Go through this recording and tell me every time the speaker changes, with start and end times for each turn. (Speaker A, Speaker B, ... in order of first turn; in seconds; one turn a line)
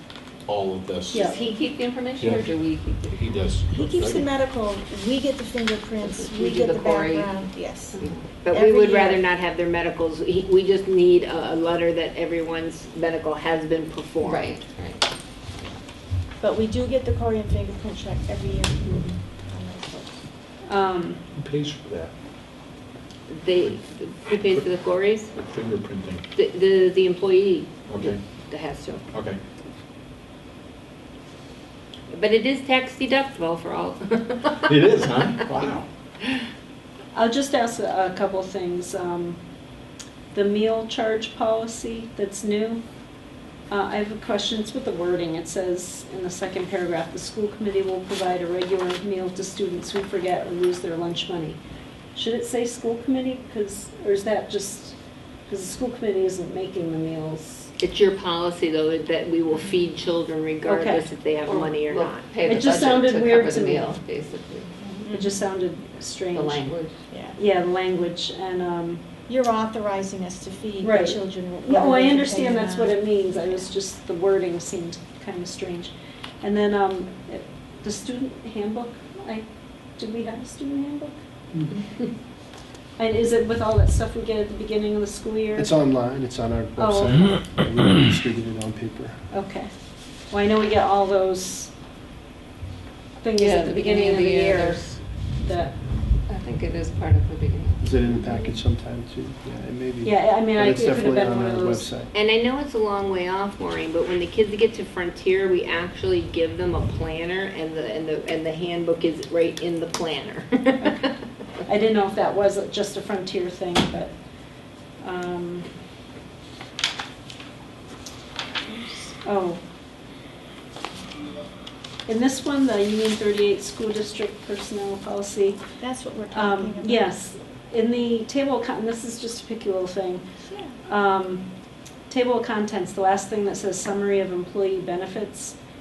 Speaker A: 0.5-1.3
Speaker B: 1.1-1.4
Speaker C: 1.2-3.3
Speaker A: 2.2-2.5
Speaker A: 3.1-4.2
Speaker D: 3.7-9.2
Speaker C: 6.0-7.4
Speaker C: 7.9-8.2
Speaker E: 8.4-14.6
Speaker C: 14.2-15.0
Speaker D: 16.4-20.2
Speaker B: 20.7-21.2
Speaker A: 21.4-22.1
Speaker E: 23.3-25.3
Speaker A: 25.3-26.2
Speaker E: 26.3-29.0
Speaker A: 27.9-28.2
Speaker A: 29.1-29.4
Speaker E: 32.1-35.8
Speaker A: 34.6-35.8
Speaker B: 37.1-39.4
Speaker B: 40.3-42.8
Speaker B: 43.7-51.6
Speaker B: 52.1-55.0
Speaker B: 55.5-57.7
Speaker E: 57.8-62.9
Speaker B: 60.6-61.1
Speaker C: 61.5-64.9
Speaker B: 62.4-64.0
Speaker D: 65.0-65.4
Speaker B: 65.1-66.6
Speaker C: 66.3-66.9
Speaker D: 67.1-67.4
Speaker B: 67.4-69.0
Speaker D: 69.3-73.7
Speaker B: 70.8-79.5
Speaker B: 80.0-81.1
Speaker B: 83.0-85.7
Speaker F: 85.5-89.2
Speaker B: 86.8-87.3
Speaker B: 89.3-89.7
Speaker B: 90.3-91.7
Speaker B: 93.2-95.7
Speaker C: 93.4-94.9
Speaker C: 96.3-97.9
Speaker F: 97.8-102.1
Speaker B: 100.0-101.9
Speaker E: 102.1-111.1
Speaker B: 111.7-114.1
Speaker B: 115.0-115.7
Speaker B: 118.7-119.6
Speaker B: 122.1-125.6
Speaker D: 125.8-127.1
Speaker B: 126.3-130.2
Speaker D: 130.4-130.7
Speaker B: 130.8-131.5
Speaker B: 132.1-135.6